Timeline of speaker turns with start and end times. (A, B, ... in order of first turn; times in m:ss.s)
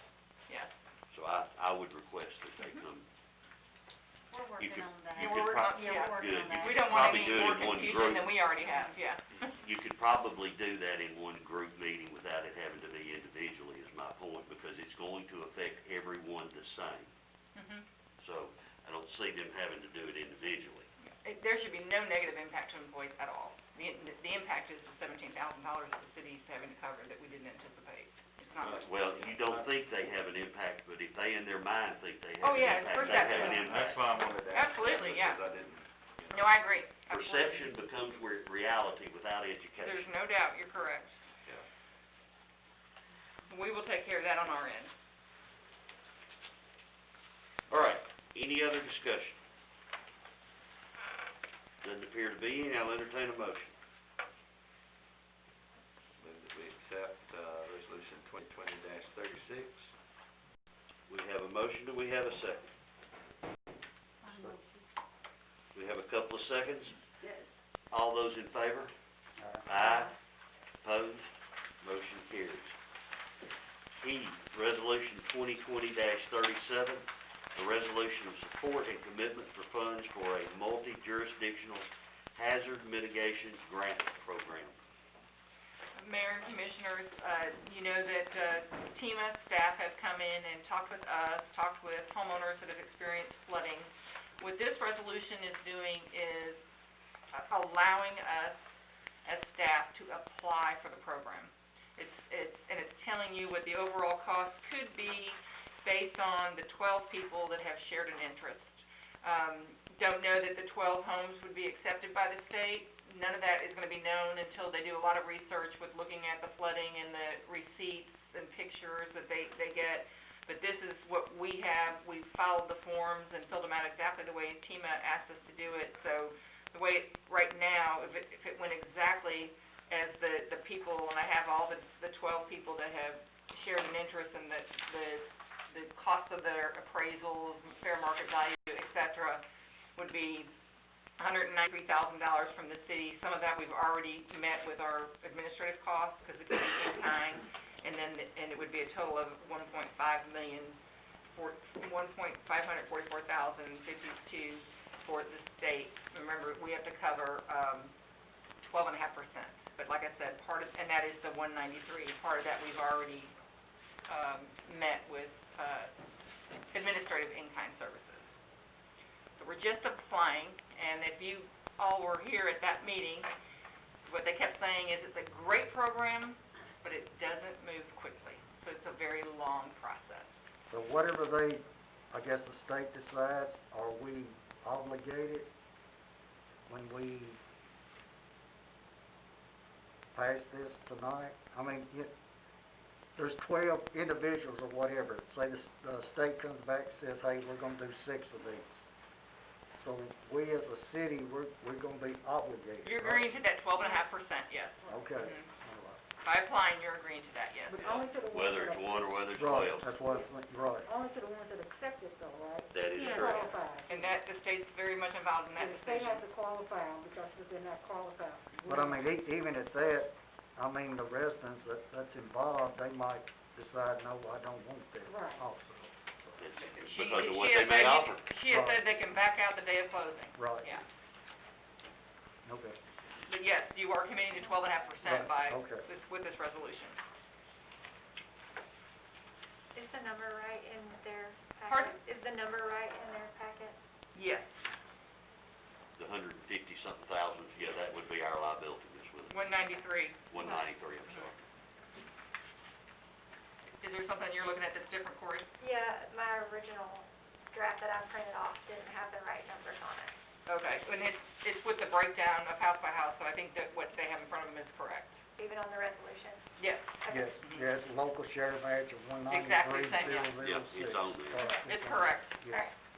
0:00.5-0:00.7 A
0:01.1-0:03.0 B
0:04.3-0:06.8 C
0:04.6-0:08.8 B
0:05.1-0:09.5 A
0:09.5-0:17.1 B
0:17.6-0:17.8 A
0:18.2-0:20.9 B
0:21.0-0:28.9 A
0:28.6-0:29.7 D
0:28.7-0:34.1 B
0:32.4-0:33.7 A
0:32.7-0:36.5 D
0:34.4-0:35.4 A
0:36.3-0:37.7 A
0:37.1-0:40.1 B
0:39.8-0:41.2 A
0:43.5-0:44.9 A
0:47.7-0:49.4 B
0:51.8-0:53.7 B
0:56.2-0:59.9 D
1:01.1-1:02.7 B
1:05.7-1:06.9 B
1:07.9-1:08.9 B
1:09.4-1:09.7 E
1:09.6-1:10.1 B
1:10.8-1:11.2 B
1:11.8-1:12.7 B
1:14.0-1:24.8 B
1:26.0-1:36.6 A
1:37.3-1:38.6 A
1:39.2-2:19.4 A
2:20.0-2:20.5 A
2:21.2-2:30.8 A
2:31.3-2:37.9 A
2:38.6-2:43.3 A
2:44.1-2:45.9 A
2:46.7-2:48.3 A
2:49.4-2:53.3 A
2:54.1-3:00.3 A
3:00.7-3:05.5 E
3:06.7-3:07.4 E
3:10.1-3:12.1 E
3:13.2-3:18.9 E
3:19.7-3:23.3 E
3:22.8-3:25.5 A
3:24.9-3:26.0 E
3:26.2-3:28.0 A
3:27.6-3:29.2 C
3:27.9-3:30.0 B
3:29.3-3:30.9 E
3:30.8-3:34.2 C
3:32.7-3:33.6 B
3:33.9-3:36.2 A
3:35.6-3:38.6 C
3:38.6-3:39.1 A
3:38.6-3:46.4 E
3:45.0-3:45.4 C
3:46.4-3:48.2 B
3:46.6-3:50.8 A
3:48.5-3:48.8 E
3:50.3-3:50.8 E
3:52.4-3:52.8 E
3:53.3-3:57.0 A
3:55.0-3:55.8 E
3:59.7-4:03.8 F
4:01.6-4:02.0 A
4:04.1-4:04.5 A
4:06.0-4:09.5 B
4:09.3-4:10.4 A
4:10.3-4:11.4 B
4:13.8-4:15.5 A
4:15.6-4:20.1 F
4:20.4-4:25.2 A
4:25.4-4:26.4 F
4:26.6-4:27.7 A
4:27.0-4:27.4 F
4:27.1-4:32.7 E
4:29.3-4:30.3 A
4:30.4-4:31.4 B
4:31.6-4:32.4 A